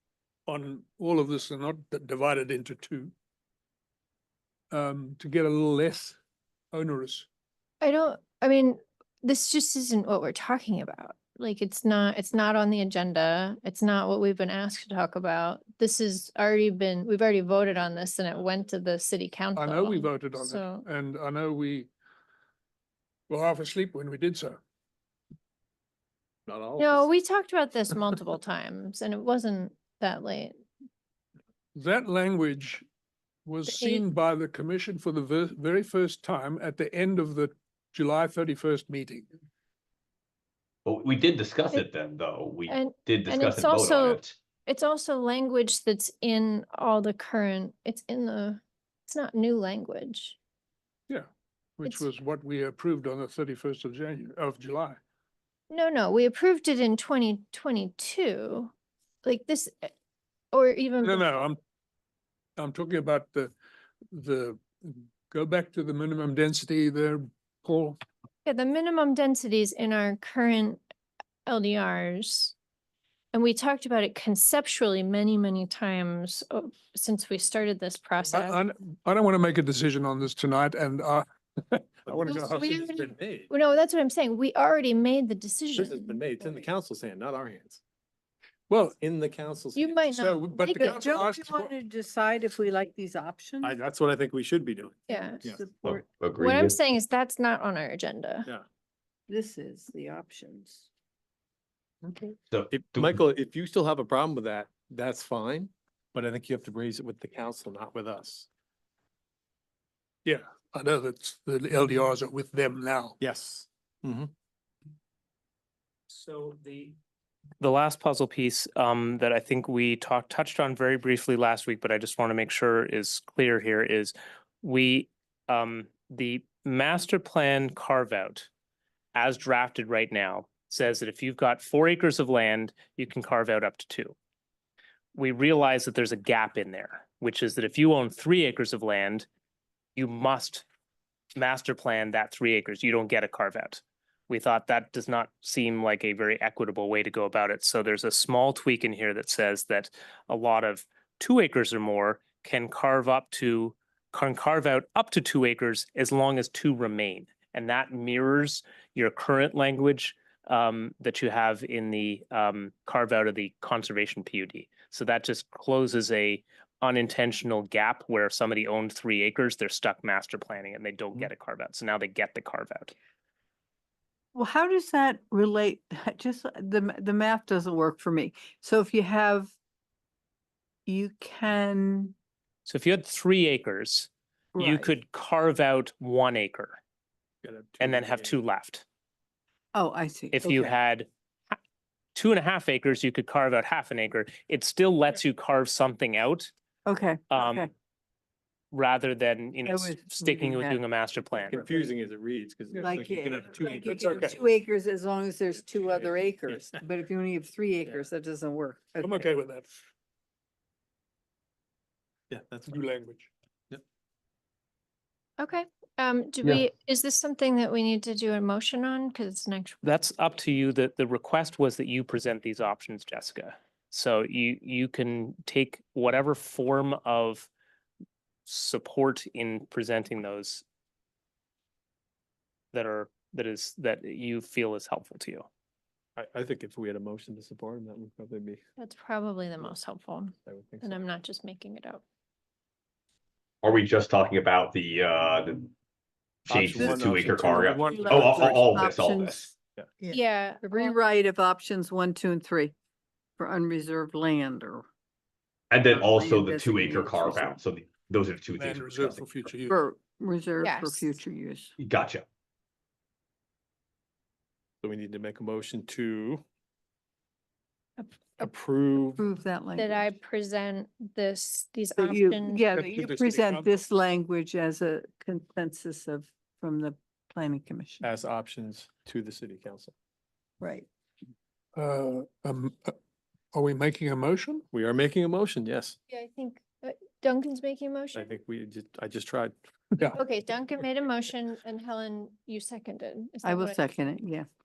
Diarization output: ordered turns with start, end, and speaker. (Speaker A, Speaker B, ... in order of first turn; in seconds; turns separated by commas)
Speaker A: 0.5-3.1, Speaker A: 4.7-6.2, Speaker A: 6.7-7.3, Speaker B: 7.8-20.8, Speaker A: 19.6-21.9, Speaker A: 23.3-24.6, Speaker C: 26.5-27.1, Speaker B: 26.8-30.5, Speaker A: 31.7-32.8, Speaker A: 33.4-39.3, Speaker B: 33.6-34.0, Speaker D: 40.8-44.3, Speaker B: 42.7-50.4, Speaker A: 51.1-55.0, Speaker B: 55.7-58.7, Speaker B: 59.2-59.9, Speaker B: 60.5-61.4, Speaker A: 61.0-61.6, Speaker A: 62.6-63.5, Speaker A: 64.1-68.0, Speaker B: 68.4-70.8, Speaker B: 71.5-72.5, Speaker B: 73.3-78.6, Speaker A: 78.3-83.1, Speaker C: 82.0-83.5, Speaker B: 82.3-82.8, Speaker B: 83.5-86.2, Speaker C: 85.7-87.8, Speaker A: 88.7-89.0, Speaker C: 89.0-90.0, Speaker B: 89.7-91.1, Speaker A: 90.1-91.7, Speaker E: 90.8-93.7, Speaker C: 93.6-95.6, Speaker B: 95.1-95.4, Speaker E: 95.1-96.0, Speaker D: 95.8-96.8, Speaker B: 96.4-98.5, Speaker E: 99.3-100.9, Speaker C: 102.0-108.5, Speaker D: 102.5-103.2, Speaker A: 110.2-113.2, Speaker C: 113.2-114.3, Speaker F: 116.1-116.9, Speaker F: 117.6-128.5, Speaker F: 129.1-134.2, Speaker F: 135.1-139.3, Speaker F: 139.9-140.7, Speaker F: 141.3-172.9, Speaker E: 174.3-179.5, Speaker E: 180.8-182.1, Speaker F: 182.7-186.8, Speaker E: 184.5-184.9, Speaker C: 187.4-188.3, Speaker F: 187.8-188.8, Speaker E: 189.7-190.7, Speaker F: 190.3-191.1, Speaker F: 192.1-196.5, Speaker E: 196.8-197.7, Speaker F: 197.3-197.6, Speaker F: 198.7-201.6, Speaker E: 199.6-200.8, Speaker C: 201.4-204.0, Speaker E: 202.7-209.2, Speaker A: 203.9-204.4, Speaker C: 205.9-206.8, Speaker A: 209.0-209.8, Speaker C: 212.3-212.8, Speaker A: 212.7-213.3, Speaker B: 215.4-219.9, Speaker F: 219.8-227.5, Speaker F: 228.4-230.6, Speaker F: 232.7-235.5, Speaker C: 236.2-238.6, Speaker B: 238.8-242.0, Speaker C: 240.4-241.0, Speaker D: 243.6-245.7, Speaker D: 246.4-249.5, Speaker C: 246.5-247.8, Speaker E: 246.8-249.5, Speaker A: 246.8-248.4, Speaker E: 250.0-252.7, Speaker B: 250.1-250.9, Speaker E: 253.4-254.8, Speaker D: 255.7-259.5, Speaker E: 255.9-257.6, Speaker A: 258.5-259.8, Speaker E: 259.7-261.7, Speaker B: 260.6-261.1, Speaker D: 261.8-262.2, Speaker C: 264.8-266.4, Speaker C: 268.4-269.2, Speaker E: 269.1-270.1, Speaker B: 269.8-272.6, Speaker E: 271.9-278.1, Speaker A: 272.7-273.7, Speaker C: 278.0-279.9, Speaker E: 280.6-280.9, Speaker A: 281.8-282.9, Speaker A: 283.5-284.6, Speaker C: 284.7-286.0, Speaker B: 286.1-288.4, Speaker C: 288.1-289.5, Speaker B: 290.1-293.8, Speaker E: 293.4-294.5